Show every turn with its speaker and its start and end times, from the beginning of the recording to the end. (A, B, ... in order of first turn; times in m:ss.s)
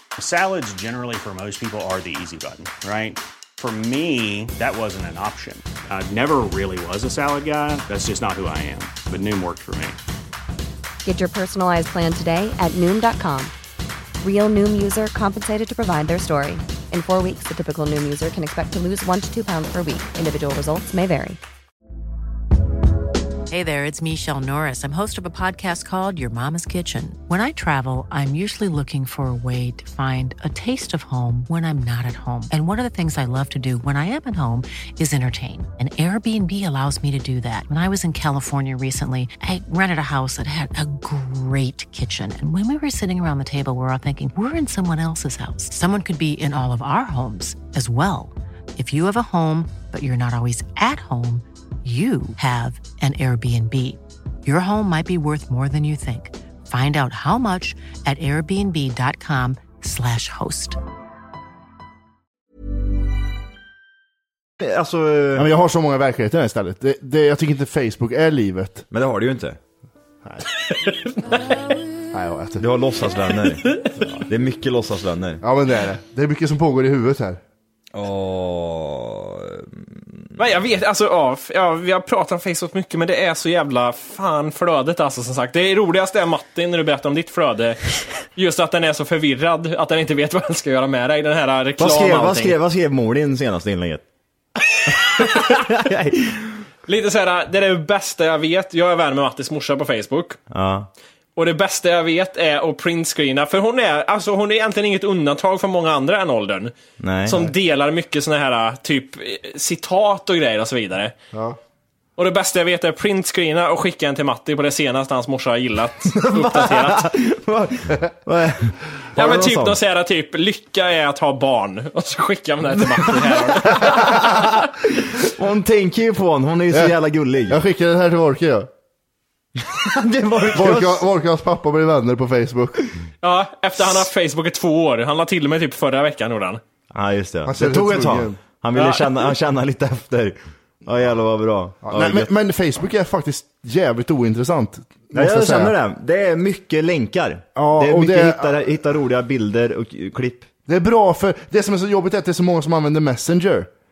0:00.2-0:10.0 A
0:11.0-0:13.5 B
0:14.2-0:21.4 B
0:23.5-1:00.8 C
1:04.6-1:05.5 D
1:05.4-1:08.8 E
1:08.9-1:09.6 D
1:10.6-1:11.6 F
1:12.1-1:12.6 E
1:12.6-1:15.4 D
1:15.4-1:17.4 E
1:17.9-1:20.3 D
1:20.4-1:27.8 F
1:28.3-1:32.6 F
1:31.8-1:34.0 D
1:34.8-1:35.5 F
1:34.9-1:36.6 D
1:36.9-1:40.4 F
1:40.5-1:40.9 D
1:41.4-1:46.7 F
1:47.0-1:47.5 D
1:47.2-1:51.1 F
1:52.2-1:57.1 F
1:56.1-1:59.8 D
1:59.2-2:04.4 F
2:02.9-2:07.6 D
2:07.5-2:08.7 E
2:09.6-2:11.0 D
2:10.5-2:12.9 E
2:13.2-2:16.6 F
2:16.9-2:22.3 D
2:17.4-2:18.4 E
2:18.7-2:19.2 F
2:21.8-2:25.7 E
2:25.1-2:30.5 D
2:27.5-2:28.5 E
2:30.7-2:33.7 E